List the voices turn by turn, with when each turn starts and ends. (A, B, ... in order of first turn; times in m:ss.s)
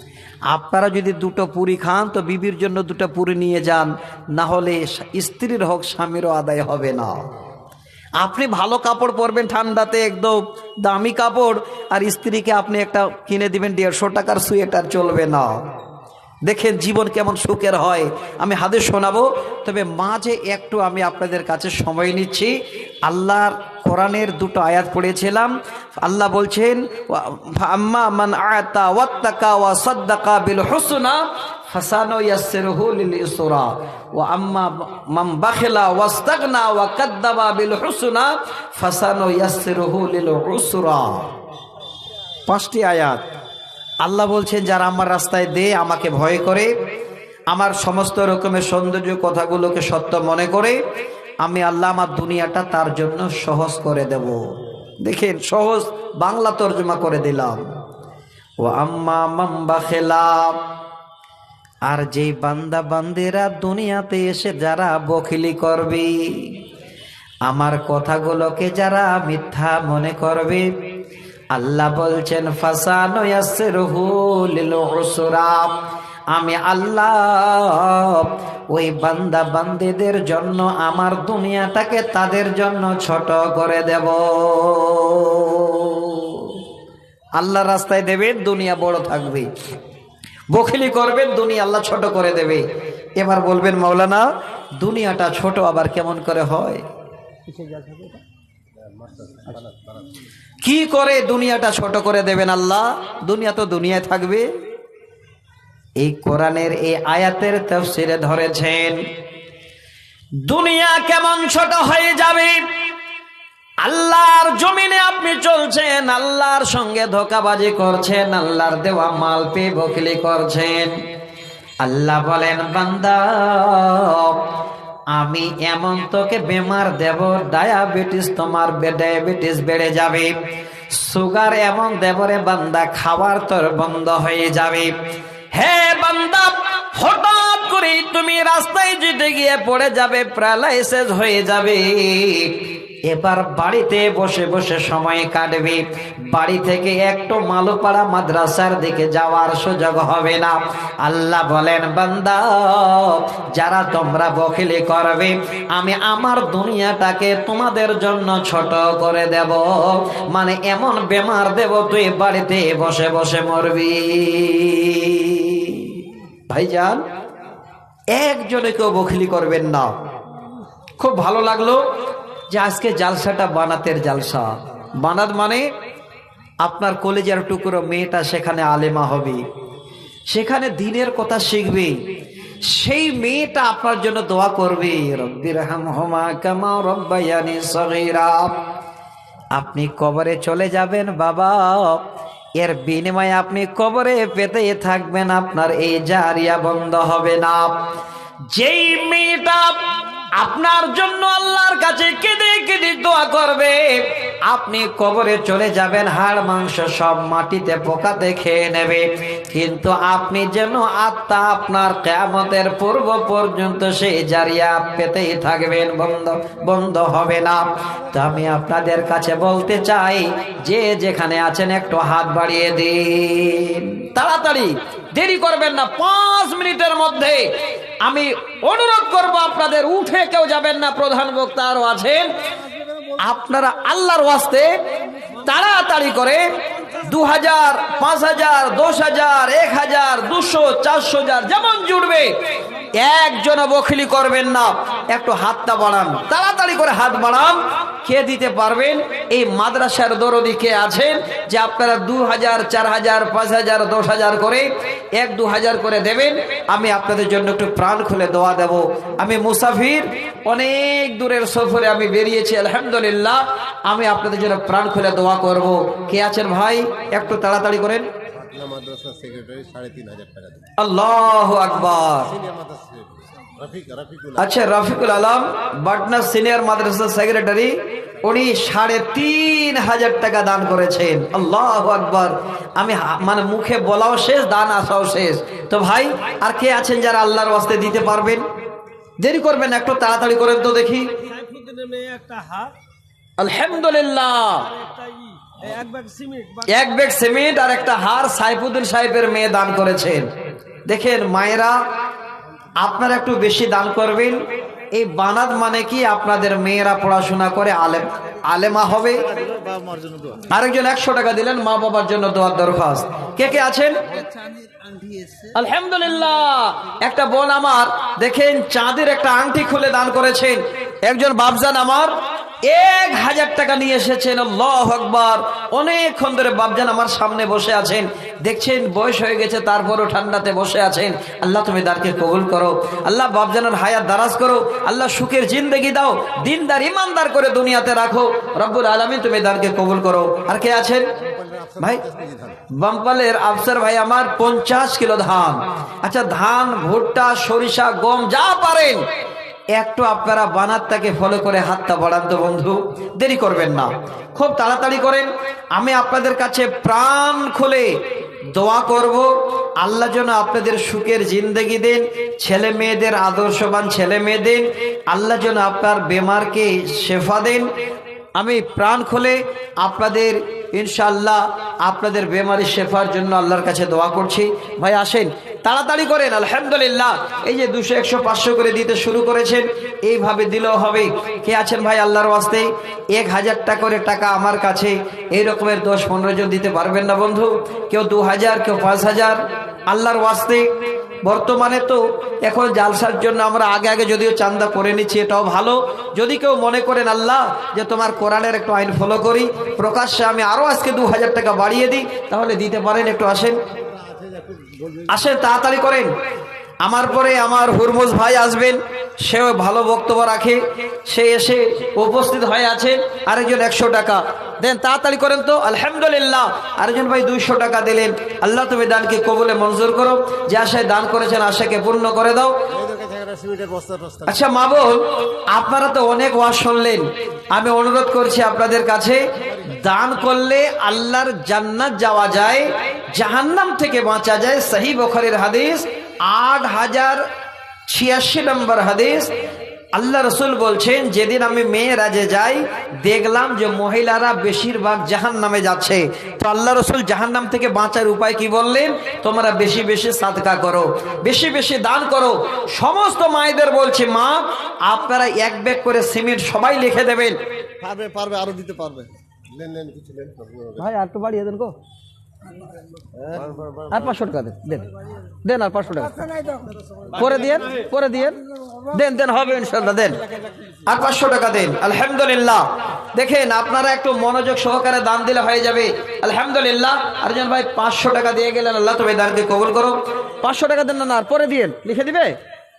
0:00.5-0:07.2 A
0:08.2-0:15.6 A
0:16.4-0:41.3 A
0:42.5-0:43.2 A
0:44.0-0:46.7 A
0:47.5-0:50.8 A
0:51.4-0:54.4 A
0:55.0-0:57.6 A
0:58.6-1:00.6 A
1:01.9-1:06.6 A
1:07.4-1:10.7 A
1:11.5-1:15.8 A
1:16.3-1:26.6 A
1:27.4-1:29.5 A
1:30.5-1:32.6 A
1:33.2-1:34.3 A
1:34.8-1:36.8 A
1:37.5-1:38.1 A
1:39.0-1:40.0 B
1:40.6-1:44.5 A
1:46.0-1:49.0 A
1:50.4-1:52.6 A
1:53.8-2:01.0 A
2:01.8-2:04.4 A
2:05.1-2:10.3 A
2:10.9-2:14.9 A
2:15.5-2:22.6 A
2:23.1-2:47.0 A
2:48.1-2:49.9 A
2:51.0-2:51.8 A
2:52.5-2:55.7 A
2:56.6-2:59.4 A
3:00.3-3:02.0 A
3:02.6-3:08.6 A
3:09.5-3:12.0 A
3:12.6-3:17.8 A
3:18.5-3:19.8 A
3:20.4-3:52.3 A
3:53.2-3:54.8 A
3:55.4-4:02.4 A
4:03.0-4:28.1 A
4:28.4-4:30.7 B
4:30.8-4:32.4 A
4:32.4-4:34.4 B
4:34.4-4:48.4 A
4:49.2-4:51.1 A
4:51.3-4:52.7 C
4:53.4-4:54.7 A
4:55.6-4:56.6 C
4:56.6-5:00.3 A
5:00.8-5:01.8 A
5:02.8-5:04.4 A
5:04.9-5:09.2 A
5:09.3-5:10.5 B
5:10.5-5:14.0 A
5:15.5-5:41.1 A
5:41.3-5:42.6 B
5:41.8-5:42.0 A
5:42.7-5:49.0 A
5:49.7-5:58.0 A
5:58.5-6:07.7 A
6:08.4-6:30.7 A
6:31.2-6:43.6 A
6:43.9-6:45.1 B
6:45.1-6:46.1 A
6:46.8-7:02.6 A
7:02.7-7:04.3 B
7:04.2-7:17.2 A
7:17.9-7:19.3 A
7:19.9-7:37.4 A
7:37.8-7:40.8 B
7:40.8-7:41.8 A
7:43.3-7:43.8 B
7:43.9-7:46.2 A
7:47.1-7:50.2 A
7:50.8-8:02.4 A